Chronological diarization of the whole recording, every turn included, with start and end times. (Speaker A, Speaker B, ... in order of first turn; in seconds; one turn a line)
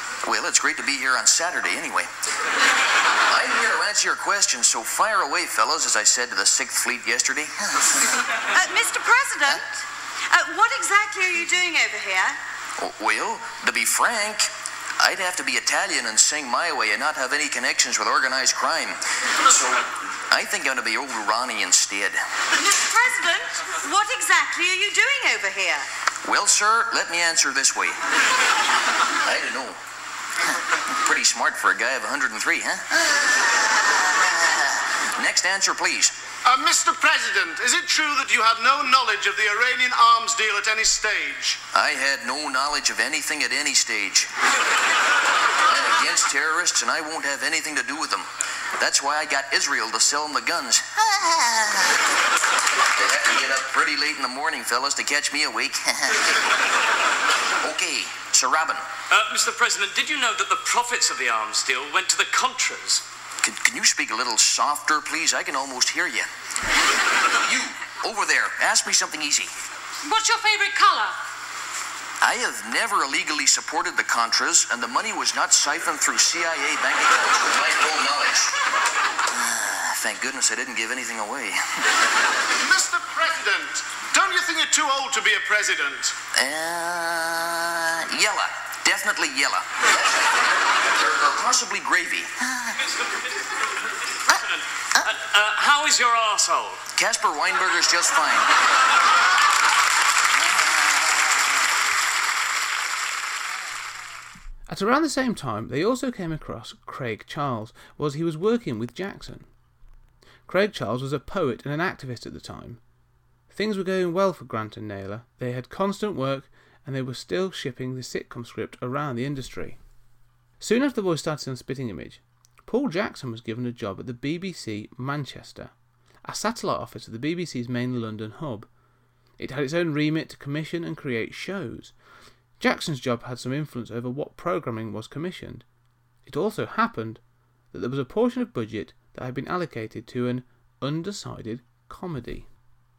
Speaker A: 0.2-2.1
Speaker A: 3.3-7.9
Speaker B: 8.5-9.7
Speaker B: 10.3-12.4
Speaker A: 12.8-22.2
Speaker B: 22.6-25.9
Speaker A: 26.2-28.0
Speaker A: 29.2-29.8
Speaker A: 30.9-32.9
Speaker A: 35.1-36.1
Speaker C: 36.4-41.6
Speaker A: 41.7-44.3
Speaker A: 45.6-48.3
Speaker A: 48.8-52.0
Speaker A: 52.9-56.4
Speaker A: 57.6-58.8
Speaker D: 59.1-63.0
Speaker A: 63.4-66.3
Speaker A: 67.4-69.5
Speaker B: 70.0-71.1
Speaker A: 72.2-78.5
Speaker A: 79.3-81.8
Speaker C: 82.5-86.1
Speaker A: 86.3-90.2
Speaker A: 90.9-92.7
Speaker D: 95.0-96.8
Speaker A: 97.0-98.5
Speaker E: 104.7-109.5
Speaker E: 110.5-112.8
Speaker E: 113.5-119.8
Speaker E: 120.6-125.7
Speaker E: 126.2-128.7
Speaker E: 129.4-131.9
Speaker E: 132.6-135.6
Speaker E: 136.2-137.2
Speaker E: 137.7-142.5